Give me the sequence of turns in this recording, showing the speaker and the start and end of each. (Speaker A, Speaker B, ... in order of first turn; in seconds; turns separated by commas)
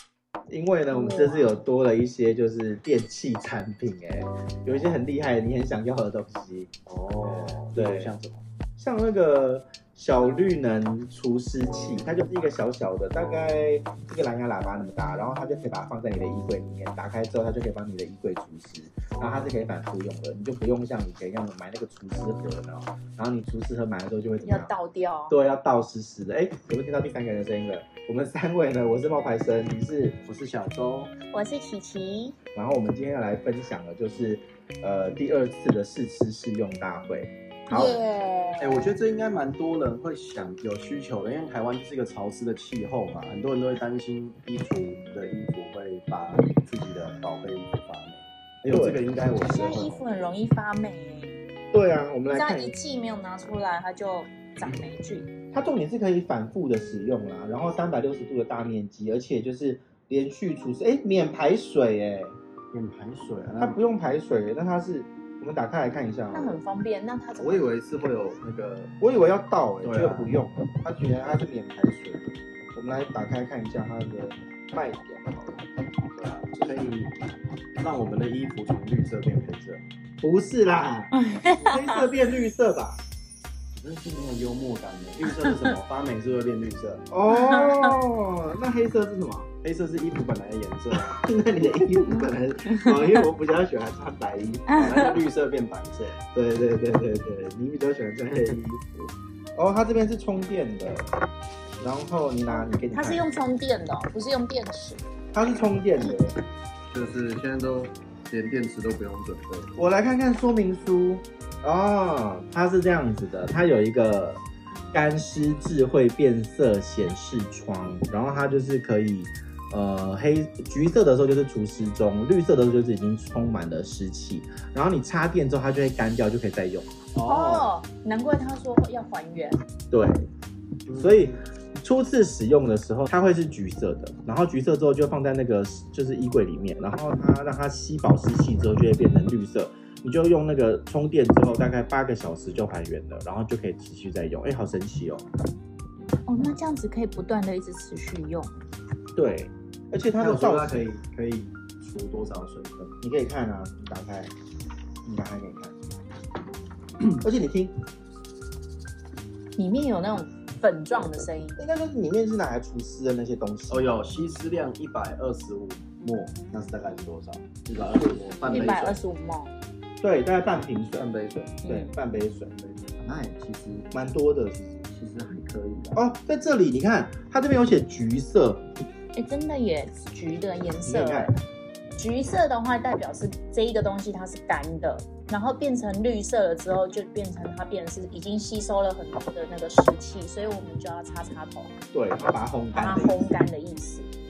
Speaker A: 0.5-6.7, Speaker B: 0.9-1.5, Speaker C: 6.9-8.4, Speaker A: 7.7-8.1, Speaker A: 8.8-24.7, Speaker B: 24.4-25.3, Speaker A: 25.3-30.2, Speaker C: 30.2-31.1, Speaker B: 31.3-32.4, Speaker A: 32.5-38.0, Speaker B: 37.7-38.9, Speaker C: 38.6-50.0, Speaker A: 48.6-49.0, Speaker B: 49.3-51.4, Speaker A: 51.7-52.7, Speaker B: 52.3-55.3, Speaker A: 55.5-62.4, Speaker C: 62.7-63.8, Speaker A: 63.6-66.6, Speaker B: 66.3-67.7, Speaker C: 67.4-68.9, Speaker A: 69.0-75.6, Speaker C: 69.8-70.4, Speaker C: 76.1-77.2, Speaker C: 77.8-79.8, Speaker A: 80.2-83.0, Speaker B: 81.1-82.0, Speaker C: 83.7-87.0, Speaker A: 87.1-89.5, Speaker B: 87.5-87.9, Speaker C: 89.6-91.2, Speaker A: 91.1-94.7, Speaker C: 94.7-96.2, Speaker A: 96.2-99.0, Speaker A: 99.5-101.1, Speaker A: 101.8-103.3, Speaker B: 102.5-105.0, Speaker A: 105.3-106.4, Speaker C: 106.9-109.7, Speaker A: 109.7-126.9, Speaker C: 127.1-127.7, Speaker B: 127.2-129.6, Speaker A: 129.9-130.3, Speaker C: 130.9-131.4, Speaker A: 130.9-145.3, Speaker B: 146.2-148.7, Speaker A: 149.1-150.8, Speaker C: 150.2-152.9, Speaker A: 153.0-154.3, Speaker A: 155.0-155.9, Speaker A: 157.2-157.8, Speaker B: 159.6-161.6, Speaker A: 161.6-163.9, Speaker C: 163.7-169.0, Speaker B: 168.4-169.5, Speaker A: 170.0-171.1, Speaker C: 170.9-171.6, Speaker B: 171.6-171.9, Speaker A: 171.7-172.6, Speaker C: 172.6-173.9, Speaker A: 173.9-174.8, Speaker C: 174.8-176.0, Speaker A: 175.9-178.6, Speaker B: 179.1-181.4, Speaker A: 180.8-181.3, Speaker B: 181.9-191.7, Speaker A: 191.9-193.3, Speaker B: 192.7-194.1